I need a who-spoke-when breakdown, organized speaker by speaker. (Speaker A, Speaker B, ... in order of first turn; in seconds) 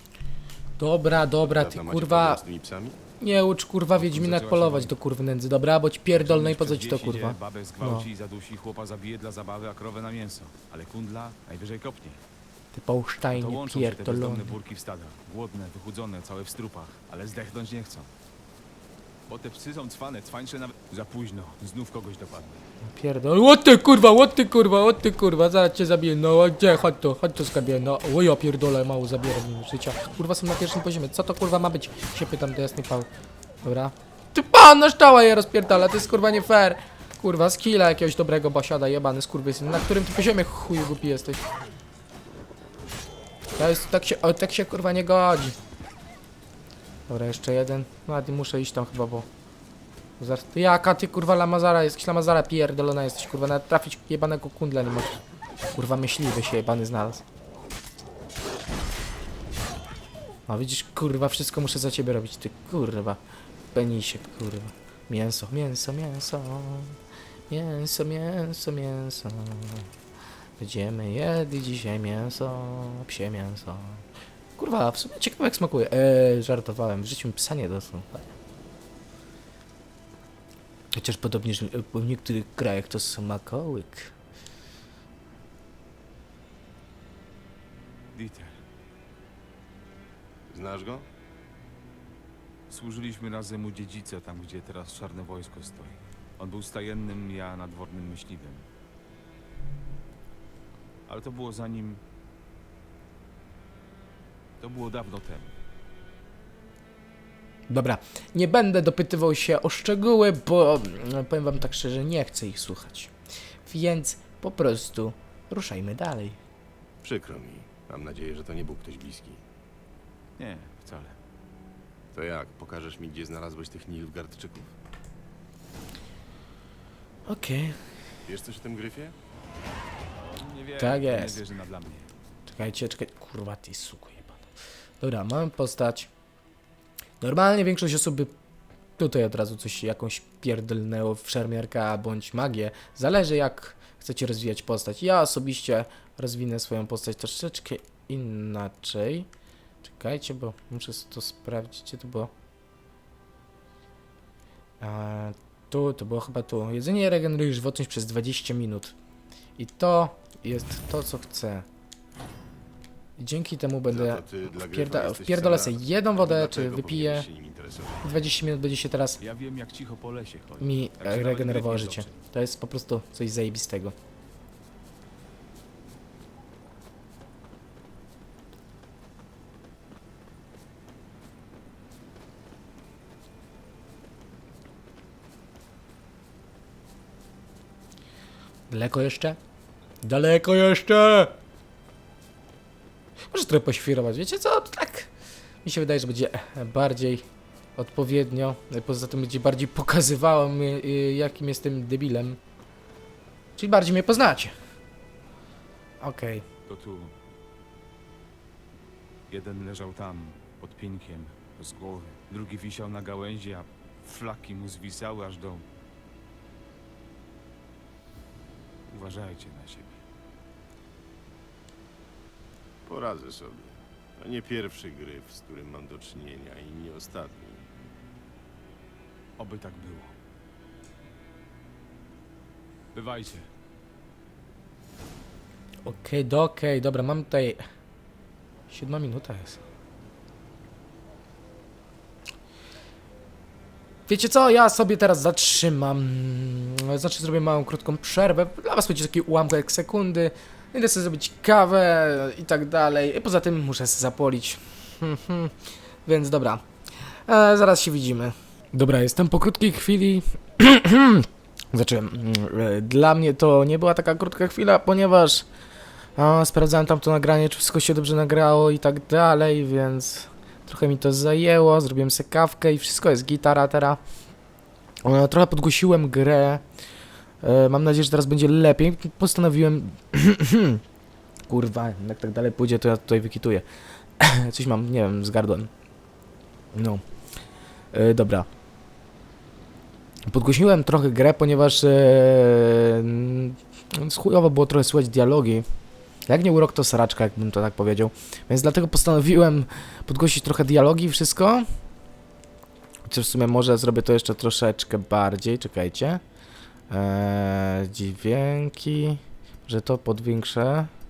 Speaker A: 0.8-2.4, 3.2-8.1, 12.7-14.6, 22.8-33.1, 33.6-41.4, 43.5-45.6, 47.1-49.3, 50.2-55.2, 55.7-57.2, 60.5-63.2, 63.7-67.0, 67.5-69.9, 70.6-74.0, 74.6-78.3, 80.9-84.1, 107.7-113.1, 113.7-116.4, 127.3-127.8, 130.8-131.4, 132.5-134.4, 135.0-136.1, 137.2-138.3, 139.0-149.3, 149.8-152.3, 154.8-158.9, 159.6-161.7, 163.2-167.3, 168.0-169.2, 170.6-173.9, 188.7-189.4, 190.0-191.3, 193.3-195.1, 195.6-197.2, 197.8-202.4, 203.6-204.5, 206.0-206.4, 235.8-237.6, 238.7-239.6, 244.1-255.5, 256.0-256.6, 257.2-265.4, 266.2-274.0, 275.0-276.6, 277.4-280.8, 281.5-283.6, 284.2-285.7, 286.7-287.0, 287.9-288.5, 290.3-295.6, 296.3-301.7, 303.1-306.2, 306.9-310.9
Speaker B: 1.4-3.0, 90.5-91.1, 117.0-119.4, 122.1-124.7, 128.2-129.1, 163.9-168.2, 222.8-227.8
Speaker C: 4.0-5.0, 6.2-12.2, 13.3-18.1, 19.3-22.6, 88.1-88.6, 92.7-98.7, 101.1-102.0, 104.6-105.5, 120.4-121.2, 130.3-132.1, 169.2-172.2, 206.7-207.1, 209.3-215.6, 218.9-220.0, 229.4-230.1, 232.9-233.4